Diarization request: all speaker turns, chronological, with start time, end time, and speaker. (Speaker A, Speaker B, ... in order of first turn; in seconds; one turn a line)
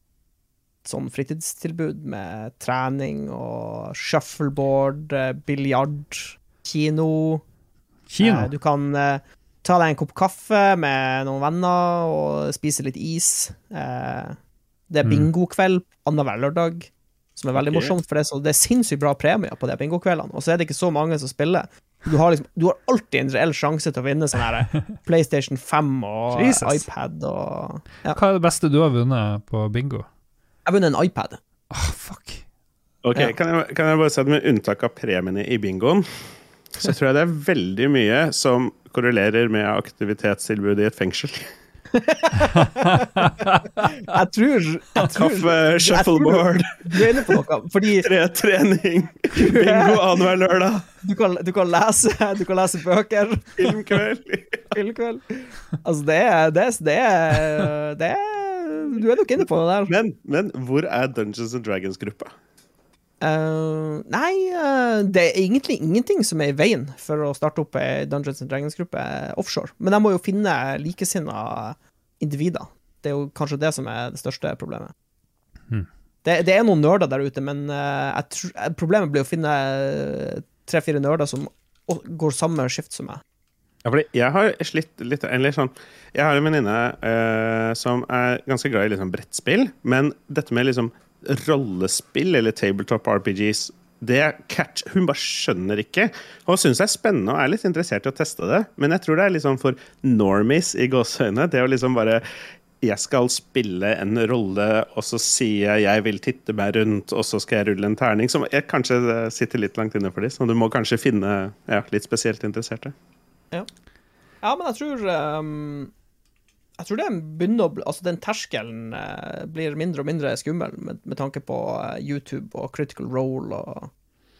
Speaker A: 0.8-7.4
Speaker B: 8.1-8.5
Speaker A: 8.2-14.4
Speaker A: 14.9-28.2
Speaker C: 17.5-17.9
Speaker B: 26.3-26.8
Speaker B: 28.1-30.1
Speaker A: 30.6-31.4
Speaker B: 31.7-32.4
Speaker C: 33.0-36.0
Speaker C: 36.7-41.5
Speaker A: 41.9-48.1
Speaker C: 45.0-47.1
Speaker C: 47.9-50.9
Speaker A: 49.3-50.1
Speaker A: 51.0-53.7
Speaker C: 53.6-54.6
Speaker A: 54.7-59.9
Speaker C: 59.9-62.3
Speaker A: 63.2-74.9
Speaker A: 76.2-83.2
Speaker C: 83.8-102.2
Speaker C: 102.8-112.9
Speaker A: 114.4-115.9
Speaker A: 116.8-123.9